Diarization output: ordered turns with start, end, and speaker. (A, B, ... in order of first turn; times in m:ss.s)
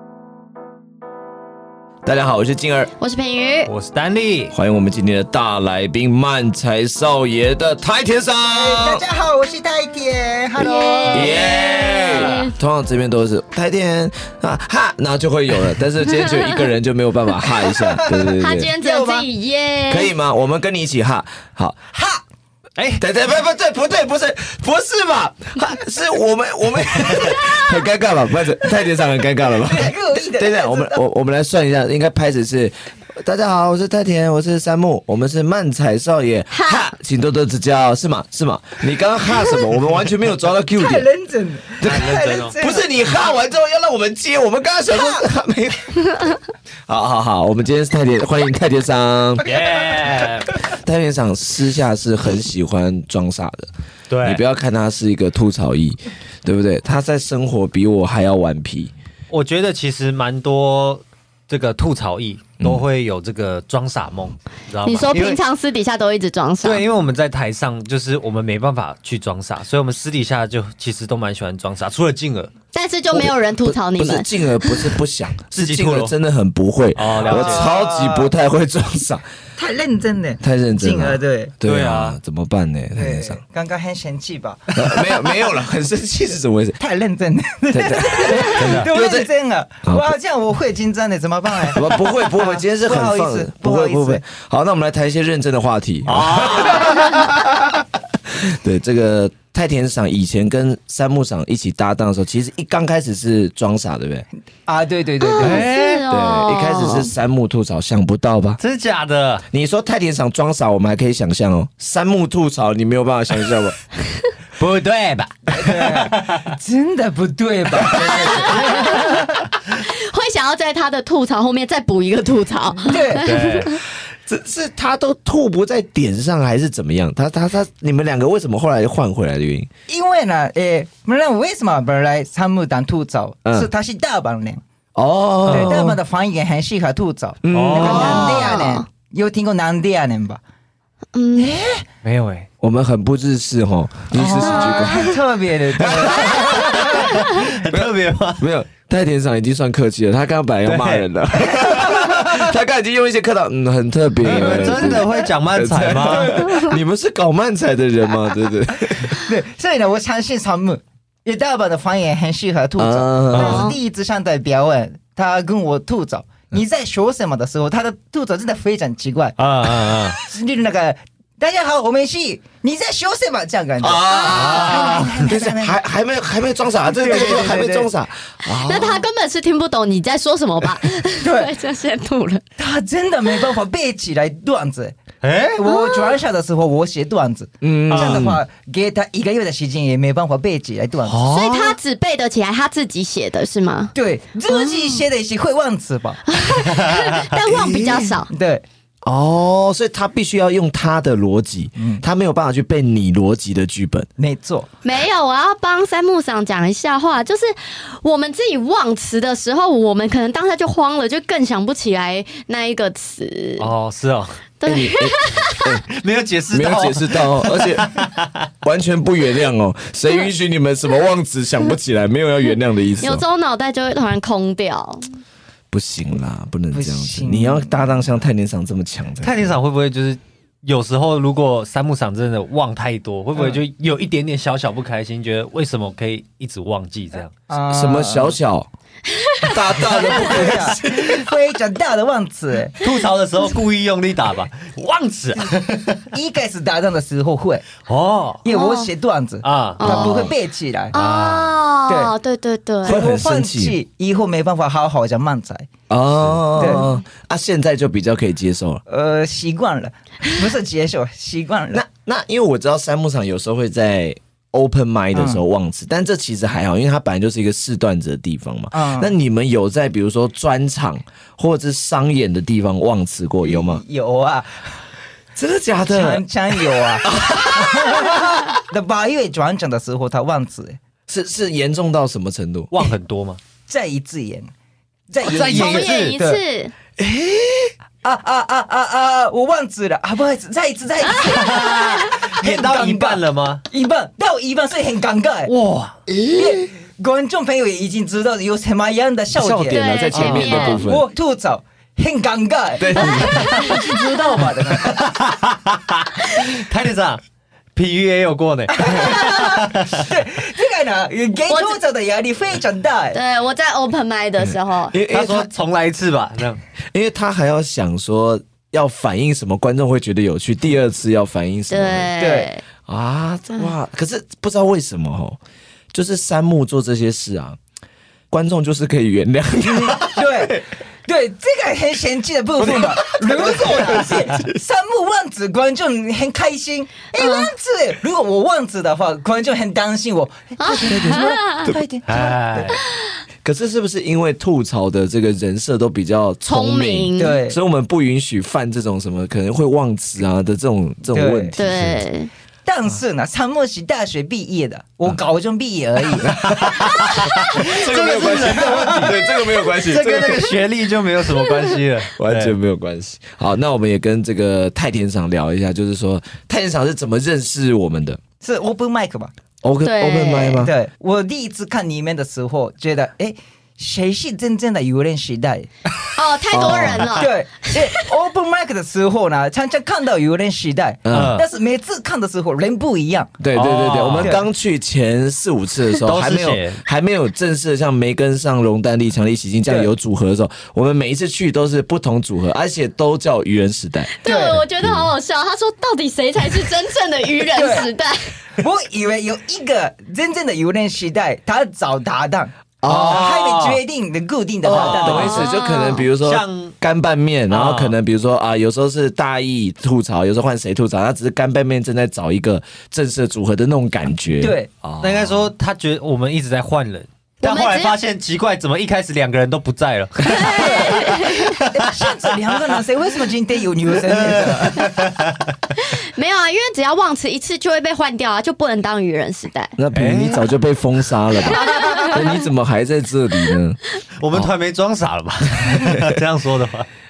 0:02.0-0:02.9 A
0:03.0-0:03.7 B
0:03.6-0:04.5 C
0:04.5-0:09.0 A
0:08.5-0:12.5 D
0:10.6-0:12.5 B
0:11.1-0:18.7 A
0:17.7-0:19.2 D
0:18.3-0:20.1 B
0:19.9-0:21.8 A
0:21.9-0:22.2 D
0:22.8-0:23.0 C
0:23.0-0:41.1 A
0:29.6-0:31.0 D
0:36.5-0:36.9 B
0:40.8-0:43.3 D
0:41.8-0:46.0 A
0:41.8-0:42.6 C
0:44.9-0:45.2 D
0:46.9-0:49.5 A
0:49.4-0:50.5 C
0:50.7-0:53.7 A
0:54.1-0:54.4 C
0:54.2-0:58.9 A
0:59.3-1:05.4 C
1:04.8-1:06.8 B
1:06.6-1:12.5 C
1:12.7-1:14.9 B
1:13.1-1:19.2 A
1:15.5-1:16.1 C
1:16.9-1:17.7 C
1:17.2-1:18.3 D
1:19.6-1:21.5 D
1:20.4-1:23.4 A
1:21.6-1:22.2 C
1:22.9-1:25.5 D
1:24.7-1:26.8 A
1:26.8-1:34.2 D
1:27.7-1:29.3 A
1:28.6-1:28.9 C
1:29.8-1:30.1 A
1:31.7-1:37.7 A
1:36.0-1:37.3 C
1:38.3-1:44.3 A
1:44.6-1:45.7 D
1:45.2-1:47.1 B
1:45.4-1:46.0 C
1:46.1-1:48.6 A
1:48.6-1:49.4 C
1:49.5-1:53.8 A
1:54.6-1:56.6 C
1:55.5-1:59.5 D
1:57.8-1:59.2 C
1:57.9-1:58.5 A
1:58.2-1:58.8 B
1:59.7-2:03.8 B
2:02.8-2:03.2 D
2:03.1-2:03.8 C
2:04.2-2:09.7 A
2:09.9-2:14.6 D
2:13.4-2:13.7 A
2:14.9-2:15.9 A
2:15.4-2:16.0 C
2:15.5-2:20.4 D
2:17.4-2:18.2 A
2:17.5-2:18.6 C
2:17.7-2:18.8 B
2:21.1-2:21.5 B
2:21.3-2:21.8 D
2:22.0-2:22.5 C
2:22.6-2:25.2 A
2:24.1-2:27.2 D
2:24.2-2:25.0 B
2:25.7-2:39.2 A
2:26.5-2:28.4 C
2:30.6-2:31.1 C
2:31.6-2:32.2 D
2:34.2-2:36.4 C
2:34.4-2:35.0 D
2:39.1-2:49.4 D
2:42.8-2:43.7 A
2:43.4-2:43.8 B
2:49.4-2:50.2 C
2:50.2-2:55.8 D
2:53.8-2:59.0 A
2:54.3-2:55.3 C
2:56.9-2:57.9 D
2:58.6-3:02.4 B
3:01.2-3:01.5 D
3:02.6-3:05.0 D
3:05.2-3:05.6 C
3:05.5-3:11.3 D
3:05.6-3:06.2 B
3:07.6-3:08.4 A
3:07.9-3:08.3 C
3:11.0-3:11.8 C
3:11.3-3:13.9 B
3:13.9-3:16.4 D
3:14.4-3:15.0 B
3:16.3-3:18.3 B
3:16.6-3:17.2 C
3:17.4-3:18.2 A
3:18.3-3:18.6 D
3:19.0-3:24.1 A
3:21.8-3:22.0 D
3:24.2-3:24.7 D
3:24.8-3:33.7 B
3:33.6-3:34.4 C
3:34.6-3:35.8 B
3:34.6-3:35.8 A
3:35.9-3:38.5 C
3:36.5-3:38.0 A
3:38.6-3:43.2 A
3:43.0-3:45.1 B
3:45.7-3:49.4 A
3:46.7-3:47.8 D
3:49.2-3:57.3 C
3:57.5-3:58.4 D
3:57.7-3:58.7 A
3:59.2-3:59.5 B
3:59.4-4:01.2 A
3:59.7-4:02.8 D
4:02.8-4:06.0 C
4:06.1-4:07.6 D
4:07.8-4:08.4 C
4:08.4-4:10.9 D
4:08.5-4:08.9 B
4:09.4-4:10.3 C
4:09.8-4:10.3 B
4:10.9-4:11.6 C
4:10.9-4:13.0 B
4:11.9-4:12.1 D
4:12.8-4:13.8 A
4:12.8-4:15.7 D
4:15.9-4:18.8 A
4:16.6-4:16.8 D
4:18.9-4:21.8 D
4:21.7-4:33.8 A
4:25.1-4:25.4 D
4:28.7-4:29.1 D
4:33.4-4:34.7 D
4:35.4-4:38.4 A
4:35.9-4:40.8 D
4:41.1-4:42.7 A
4:42.7-4:43.4 C
4:43.7-4:44.5 D
4:45.1-4:46.4 D
4:45.2-4:46.2 C
4:45.3-4:46.7 B
4:47.0-4:47.7 A
4:48.0-4:55.5 D
4:51.2-4:53.6 C
4:51.4-4:52.1 B
4:55.4-4:56.0 C
4:56.1-4:56.6 A
4:56.3-5:05.2 D
4:59.4-5:01.0 A
4:59.7-5:00.8 B
5:00.1-5:00.8 C
5:02.8-5:03.8 A
5:04.8-5:07.2 C
5:07.7-5:10.1 C
5:08.7-5:13.2 D
5:11.5-5:11.8 B
5:13.1-5:14.9 B
5:14.4-5:15.5 A
5:15.1-5:16.6 C
5:16.9-5:22.1 A
5:21.7-5:22.6 B
5:22.2-5:22.5 D
5:22.8-5:25.4 A
5:25.9-5:27.6 A
5:28.3-5:30.6 A
5:29.7-5:42.8 D
5:32.6-5:34.6 A
5:37.2-5:37.5 B
5:40.6-5:41.8 B
5:42.1-5:42.8 C
5:43.4-5:52.0 A
5:46.5-5:47.4 B
5:47.2-5:47.6 D
5:51.1-5:51.6 D
5:51.6-5:52.3 B
5:52.6-5:59.1 D
5:56.2-6:00.5 A
5:57.4-6:02.5 C
6:02.2-6:08.2 A
6:08.4-6:09.3 D
6:09.6-6:10.7 A
6:09.8-6:10.6 B
6:10.6-6:15.7 D
6:16.1-6:17.9 B
6:16.5-6:17.3 A
6:17.1-6:23.4 D
6:21.0-6:21.4 A
6:21.1-6:21.5 C
6:23.4-6:34.1 A
6:23.5-6:24.4 C
6:24.2-6:24.4 D
6:26.0-6:26.8 C
6:34.2-6:38.4 B
6:34.2-6:34.6 D
6:34.8-6:35.1 A
6:37.5-6:37.9 D
6:38.5-6:45.4 D
6:42.8-6:43.2 A
6:42.8-6:43.8 C
6:44.6-6:55.5 A
6:44.7-6:45.5 C
6:45.2-6:46.0 B
6:46.2-6:46.7 C
6:47.5-6:48.0 C
6:54.4-6:54.7 D
6:55.0-7:02.8 C
6:57.4-6:58.0 B
7:00.4-7:01.5 B
7:00.4-7:05.1 D
7:03.9-7:05.5 C
7:05.8-7:09.7 B
7:09.8-7:13.8 A
7:09.9-7:10.5 C
7:11.5-7:12.1 B
7:14.2-7:16.9 C
7:15.7-7:16.1 A